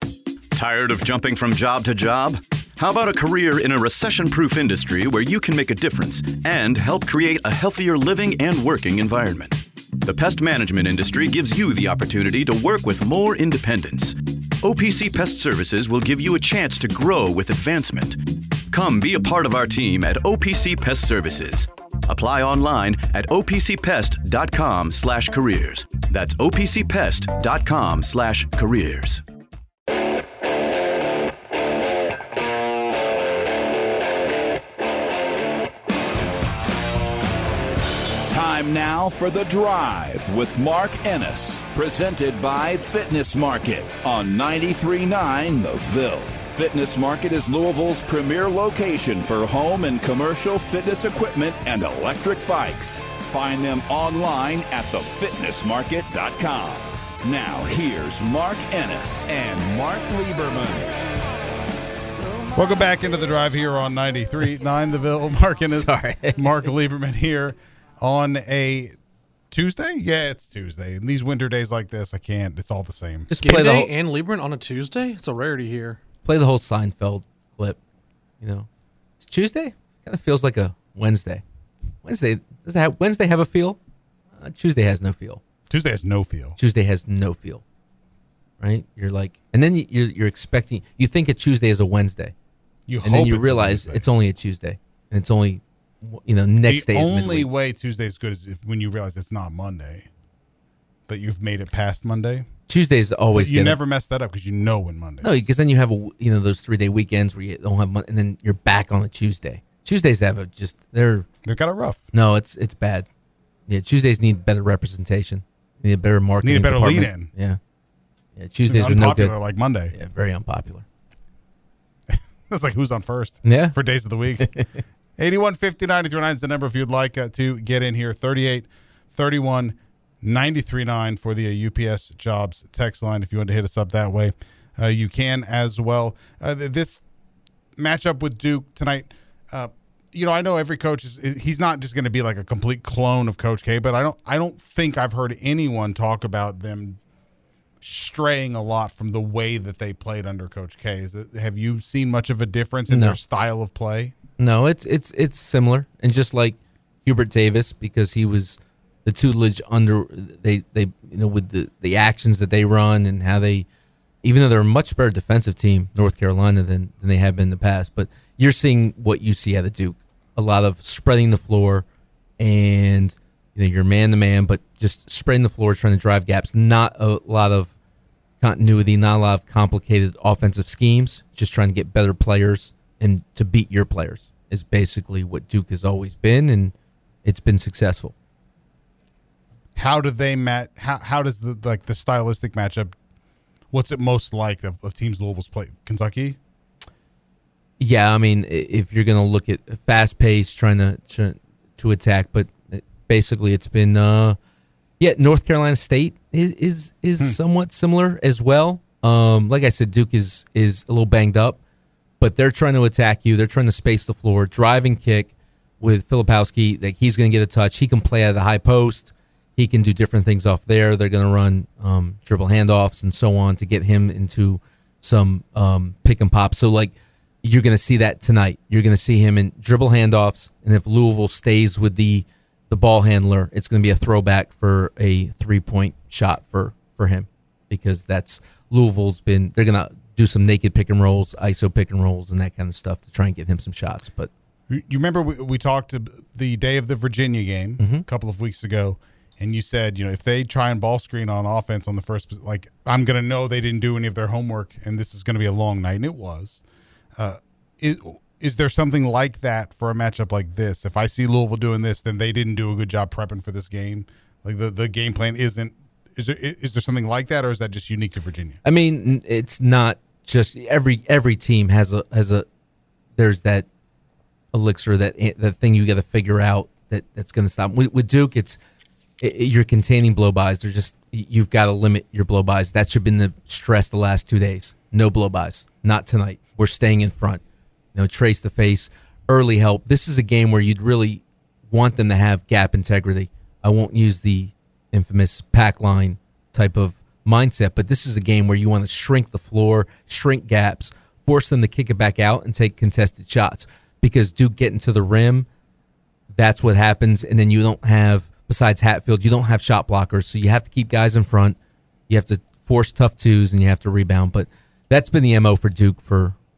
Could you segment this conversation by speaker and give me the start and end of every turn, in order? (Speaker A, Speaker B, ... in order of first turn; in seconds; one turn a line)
Speaker A: 0.5-18.2
Speaker A: 18.7-29.2
Speaker B: 38.3-60.9
Speaker C: 62.5-69.0
Speaker D: 65.7-66.5
Speaker C: 69.5-73.3
Speaker D: 73.3-73.9
Speaker E: 73.3-76.0
Speaker D: 76.2-77.8
Speaker D: 78.4-78.7
Speaker D: 79.2-81.4
Speaker D: 82.0-83.8
Speaker D: 84.4-85.4
Speaker C: 85.7-86.6
Speaker D: 86.6-87.6
Speaker D: 88.6-92.3
Speaker C: 92.9-94.1
Speaker D: 93.0-97.5
Speaker C: 96.7-100.1
Speaker C: 101.1-102.5
Speaker D: 102.7-103.8
Speaker C: 103.3-105.4
Speaker D: 105.2-111.3
Speaker C: 111.4-112.1
Speaker D: 112.1-113.1
Speaker D: 113.7-117.6
Speaker C: 116.4-117.3
Speaker D: 118.4-119.3
Speaker C: 118.7-119.9
Speaker D: 119.9-120.8
Speaker C: 122.1-124.6
Speaker D: 123.4-123.8
Speaker D: 124.4-124.7
Speaker C: 125.2-137.0
Speaker C: 137.8-147.0
Speaker C: 147.8-154.1
Speaker D: 152.9-153.2
Speaker D: 154.4-163.7
Speaker D: 164.2-171.8
Speaker D: 172.4-177.7
Speaker D: 178.4-186.7
Speaker D: 187.2-188.1
Speaker C: 189.8-192.9
Speaker C: 193.7-196.4
Speaker D: 197.8-204.4
Speaker D: 205.0-211.6
Speaker D: 212.2-244.3
Speaker C: 244.7-256.6
Speaker D: 247.8-248.0
Speaker C: 257.2-268.6
Speaker D: 268.6-272.4
Speaker D: 273.2-273.7
Speaker D: 274.5-278.6
Speaker D: 279.2-287.4
Speaker D: 287.9-305.5
Speaker D: 306.3-311.6
Speaker D: 312.1-316.3